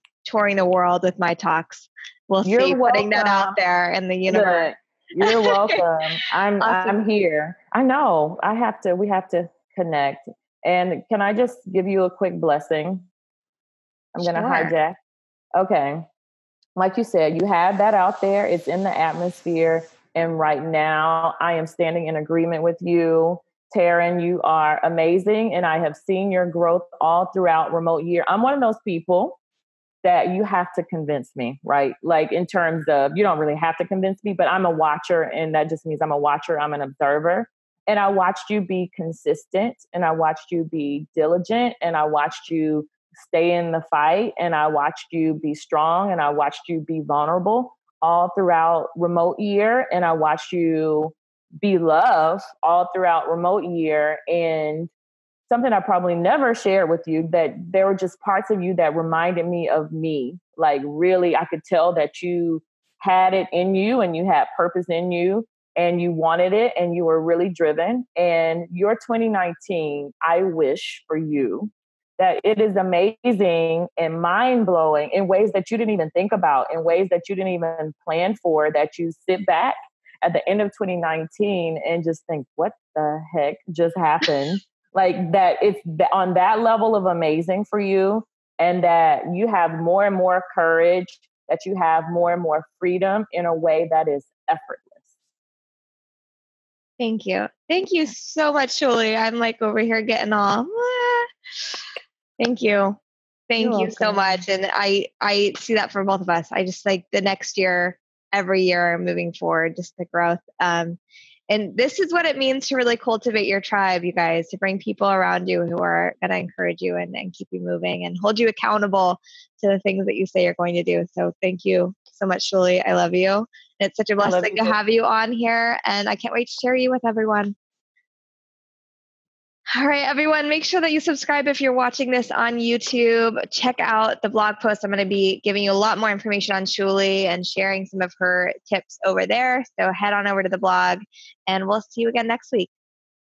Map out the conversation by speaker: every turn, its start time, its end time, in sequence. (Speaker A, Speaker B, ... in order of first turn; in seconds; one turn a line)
Speaker A: 0.2-4.7
Speaker B: 2.4-3.6
Speaker B: 4.3-13.1
Speaker A: 5.2-5.8
Speaker A: 6.6-7.0
Speaker B: 14.2-15.0
Speaker A: 14.2-14.7
Speaker B: 15.6-16.1
Speaker B: 16.8-29.4
Speaker B: 30.0-54.9
Speaker B: 55.5-95.0
Speaker A: 97.0-101.3
Speaker A: 102.4-103.0
Speaker A: 103.5-127.5
Speaker B: 103.6-104.4
Speaker B: 124.2-124.8
Speaker A: 129.7-142.7